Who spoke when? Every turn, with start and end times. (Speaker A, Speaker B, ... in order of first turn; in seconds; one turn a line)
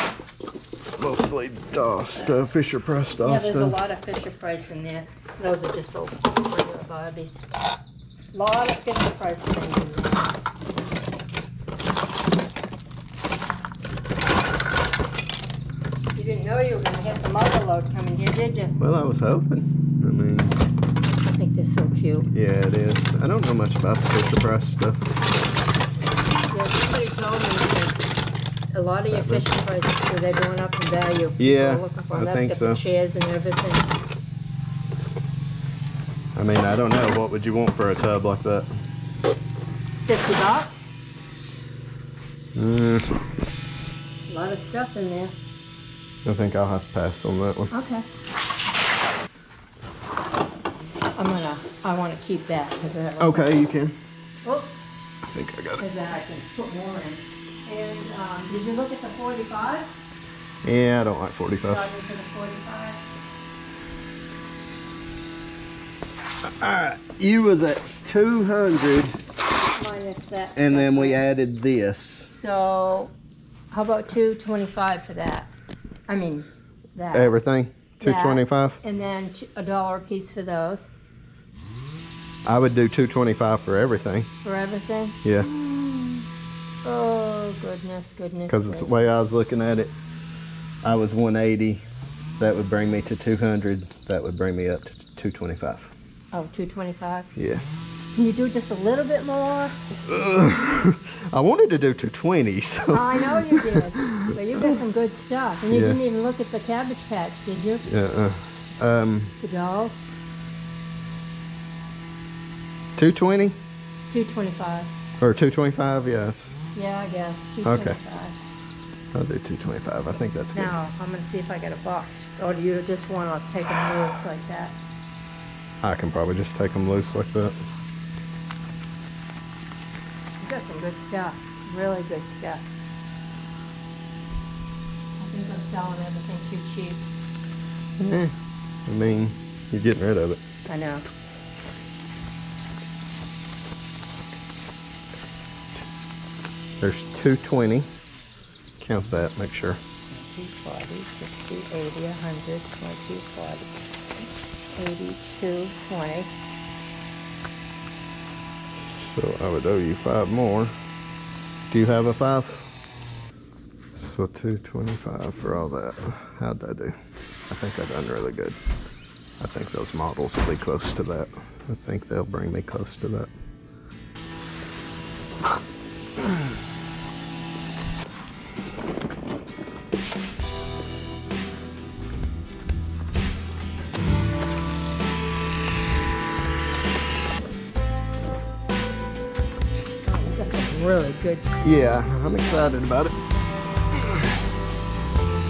Speaker A: 0.8-3.8
Speaker B: 3.2-7.4
Speaker B: 8.3-10.3
Speaker B: 16.1-18.8
Speaker A: 18.8-20.5
Speaker B: 21.2-22.3
Speaker A: 22.3-25.0
Speaker B: 26.5-28.1
Speaker B: 28.7-33.9
Speaker A: 29.1-29.5
Speaker A: 31.4-32.8
Speaker A: 36.3-38.7
Speaker B: 40.1-40.9
Speaker A: 42.5-43.2
Speaker B: 44.3-45.3
Speaker A: 46.2-47.7
Speaker B: 47.7-48.0
Speaker B: 51.1-53.5
Speaker A: 53.2-54.0
Speaker B: 54.4-54.7
Speaker A: 55.3-55.8
Speaker B: 55.8-59.9
Speaker A: 60.6-61.9
Speaker B: 61.6-63.0
Speaker A: 66.4-69.2
Speaker B: 69.8-71.2
Speaker A: 70.5-72.3
Speaker B: 72.3-73.1
Speaker B: 73.7-75.5
Speaker B: 76.1-77.3
Speaker A: 77.1-78.8
Speaker B: 78.0-80.9
Speaker A: 82.4-84.3
Speaker B: 84.4-86.3
Speaker B: 86.8-88.9
Speaker A: 88.5-89.9
Speaker A: 90.8-91.8
Speaker A: 92.4-95.9
Speaker B: 96.3-97.3
Speaker A: 97.3-97.7
Speaker B: 98.1-99.7
Speaker A: 100.1-104.3
Speaker B: 102.9-107.9
Speaker A: 105.7-106.0
Speaker A: 107.8-109.3
Speaker B: 109.4-110.0
Speaker A: 113.0-113.6
Speaker B: 114.1-114.9
Speaker A: 115.2-116.5
Speaker B: 116.7-118.3
Speaker A: 117.6-118.0
Speaker A: 119.1-120.8
Speaker B: 120.5-124.8
Speaker A: 125.8-127.6
Speaker B: 130.4-132.6
Speaker B: 135.2-137.0
Speaker A: 138.0-138.3
Speaker A: 138.8-140.4
Speaker B: 140.7-141.1
Speaker A: 146.8-147.9
Speaker A: 148.8-149.8
Speaker B: 150.1-153.7
Speaker B: 154.7-156.3
Speaker A: 158.9-160.7
Speaker A: 161.7-162.6
Speaker A: 163.9-166.9
Speaker A: 167.5-168.6
Speaker A: 169.4-173.3
Speaker B: 190.1-191.7
Speaker A: 191.6-193.2
Speaker B: 192.4-192.7
Speaker A: 193.9-194.3